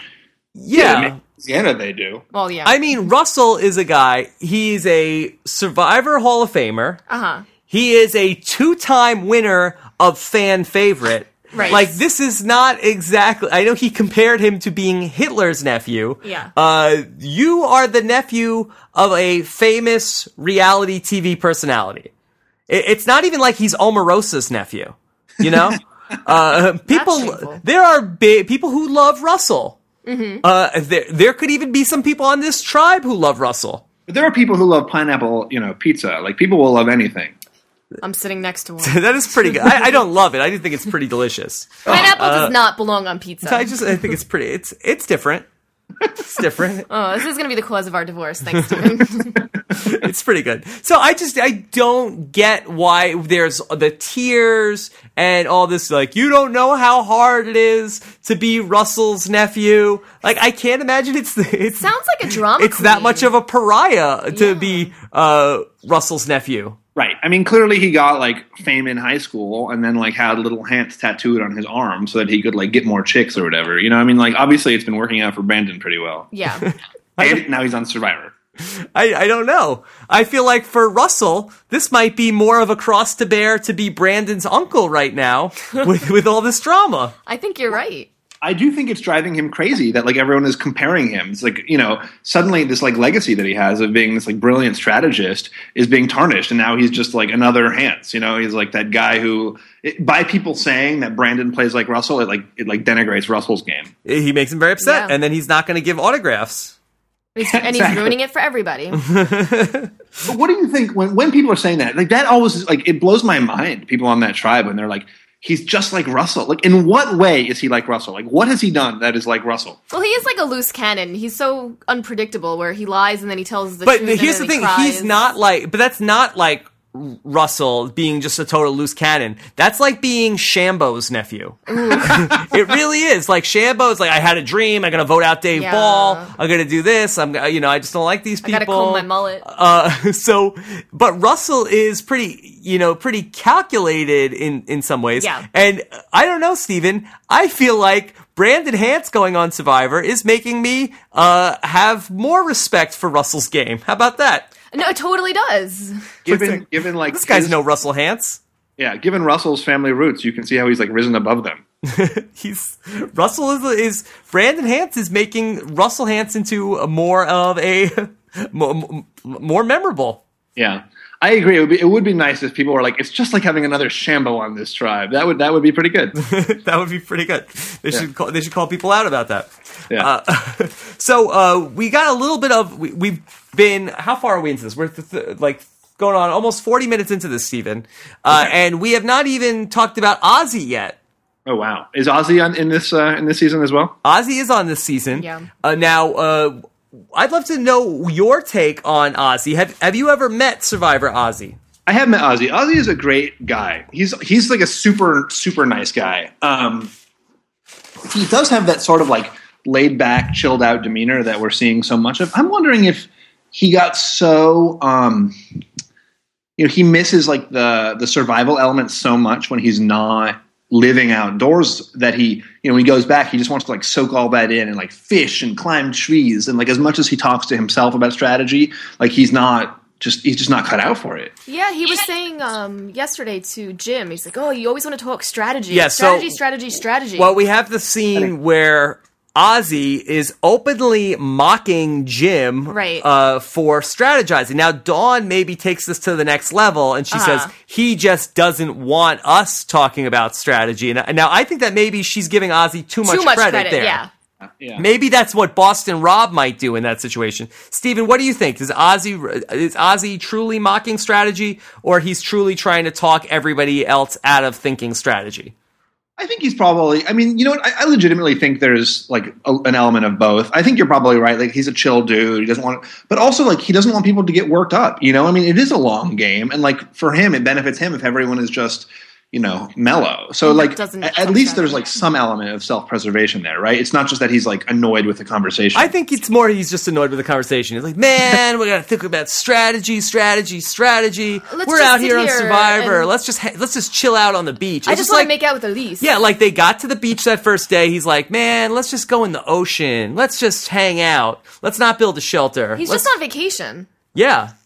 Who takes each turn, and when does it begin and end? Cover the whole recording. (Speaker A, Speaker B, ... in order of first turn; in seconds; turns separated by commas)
Speaker A: 0.6-1.2, Speaker B: 0.7-2.2, Speaker C: 2.3-2.8, Speaker A: 2.6-7.0, Speaker C: 7.1-7.5, Speaker A: 7.7-22.1, Speaker C: 11.5-12.0, Speaker C: 16.2-16.5, Speaker A: 22.7-29.8, Speaker C: 26.9-27.6, Speaker C: 30.1-30.4, Speaker A: 30.4-33.8, Speaker B: 34.1-37.3, Speaker C: 38.0-39.9, Speaker A: 38.8-42.5, Speaker C: 41.9-43.8, Speaker A: 43.4-45.5, Speaker A: 46.2-46.9, Speaker C: 46.9-49.5, Speaker A: 49.7-66.8, Speaker C: 61.8-63.3, Speaker C: 64.3-64.9, Speaker B: 67.0-76.3, Speaker C: 76.3-76.7, Speaker A: 76.6-77.4, Speaker B: 77.2-78.3, Speaker A: 78.6-87.1, Speaker C: 87.3-88.1, Speaker B: 88.4-103.9, Speaker A: 104.0-106.8, Speaker C: 104.8-105.2, Speaker C: 107.3-109.0, Speaker B: 107.4-108.2, Speaker A: 109.0-109.9, Speaker B: 110.2-119.8, Speaker C: 119.9-125.3, Speaker A: 123.8-154.5, Speaker C: 131.7-132.4, Speaker C: 135.6-136.3, Speaker C: 138.4-139.4, Speaker C: 145.2-145.5, Speaker C: 154.7-156.0, Speaker B: 156.3-157.6, Speaker A: 156.3-158.4, Speaker B: 158.8-161.6, Speaker A: 161.8-170.2, Speaker B: 170.6-176.2, Speaker A: 176.2-191.0, Speaker B: 191.5-193.9, Speaker A: 194.0-196.6, Speaker C: 195.1-195.5, Speaker A: 197.1-201.6, Speaker B: 201.9-206.9, Speaker B: 208.1-215.4, Speaker B: 216.6-231.3, Speaker C: 231.5-237.3, Speaker A: 235.7-236.3, Speaker A: 237.2-254.0, Speaker C: 242.7-243.1, Speaker C: 247.1-247.5, Speaker C: 253.1-254.1, Speaker B: 254.6-254.8, Speaker A: 254.8-265.5, Speaker B: 266.2-285.9, Speaker C: 280.4-282.0, Speaker A: 285.8-295.3, Speaker C: 291.5-293.1, Speaker C: 294.9-296.1, Speaker A: 296.0-303.1, Speaker C: 302.8-303.9, Speaker A: 304.1-304.5